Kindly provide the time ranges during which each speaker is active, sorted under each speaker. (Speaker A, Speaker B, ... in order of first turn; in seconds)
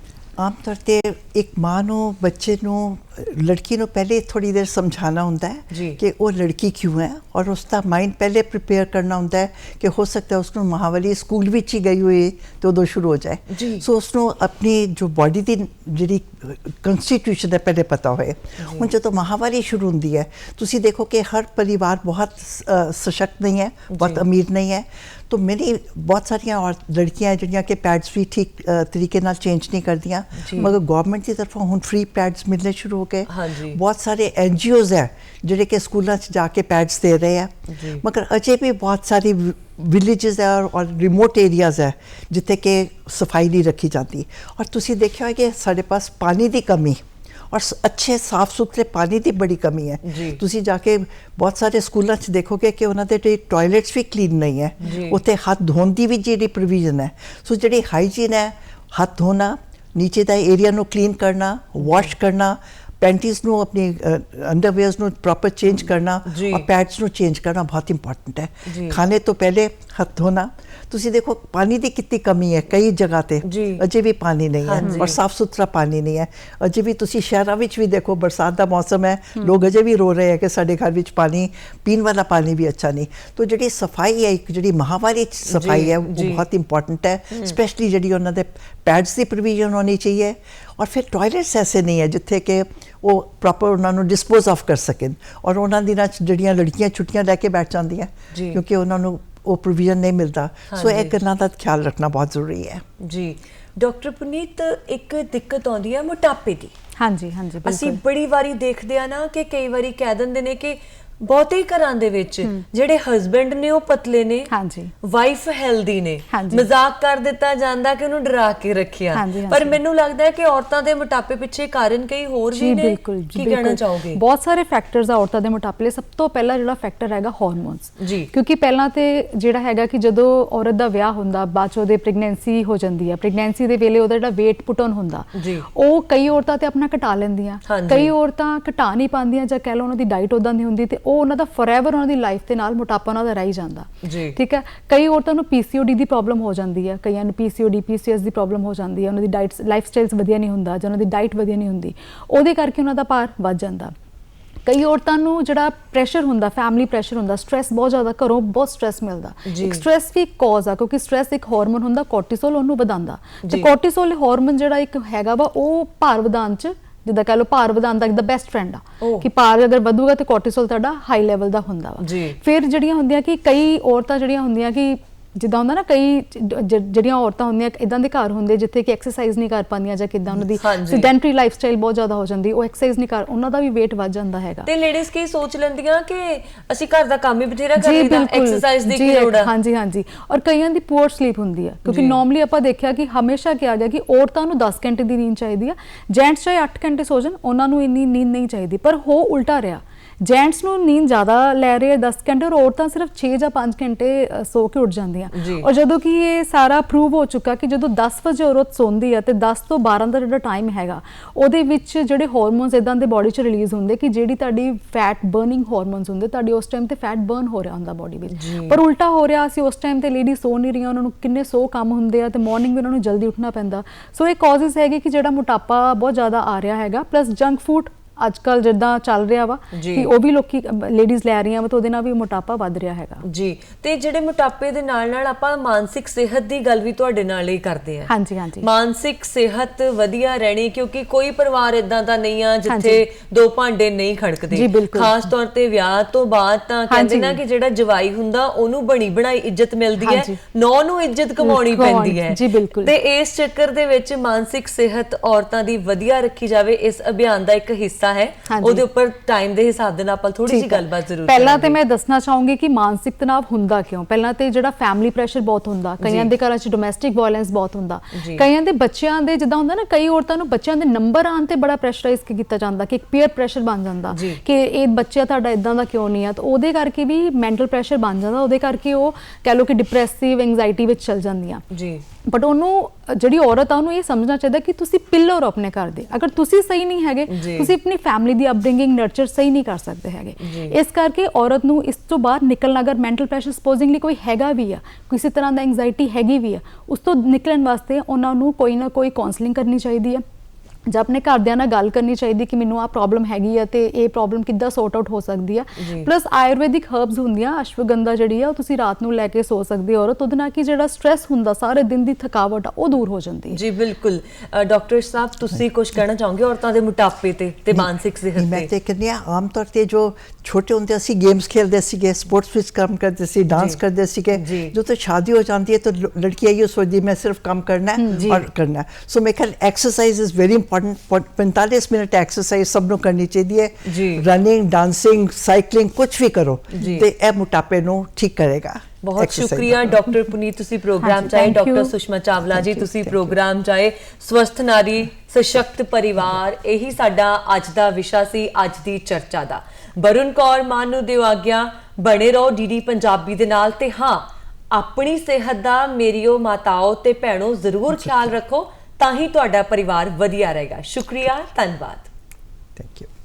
Speaker A: 0.4-102.8, 317.7-340.0, 342.4-343.4, 362.8-363.1
Speaker B: 5.7-6.0, 13.5-13.8, 18.6-18.9, 23.9-24.2, 30.4-30.7, 33.3-33.8, 37.7-38.0, 50.0-50.4, 54.8-55.2, 61.8-62.1, 66.3-66.7, 68.7-69.0, 73.4-73.8, 74.6-75.2, 85.5-86.4, 98.3-98.6, 100.7-101.1, 103.0-106.7, 107.6-114.5, 115.0-124.2, 128.0-128.3, 135.3-135.7, 137.7-138.1, 144.0-144.4, 159.4-159.8, 169.0-169.3, 172.0-172.4, 180.3-181.1, 184.7-189.5, 191.8-192.2, 205.3-205.7, 218.3-218.8, 229.7-230.1, 233.2-261.8, 266.0-266.3, 268.1-268.4, 274.1-274.4, 281.7-282.0, 287.3-287.7, 290.4-290.7, 305.8-306.1, 313.5-318.7, 323.5-323.8, 324.3-324.7, 333.9-334.2, 336.8-337.1, 339.0-362.1
Speaker C: 107.0-108.0, 114.5-114.9, 116.3-116.7, 119.1-119.8, 122.5-153.9, 154.7-184.7, 187.8-233.2, 238.1-238.7, 242.7-243.0, 244.5-245.2, 246.9-247.4, 250.0-250.4, 251.4-252.9, 258.5-258.8, 260.4-281.6, 282.2-300.2, 300.9-313.6, 327.9-328.4, 341.0-341.9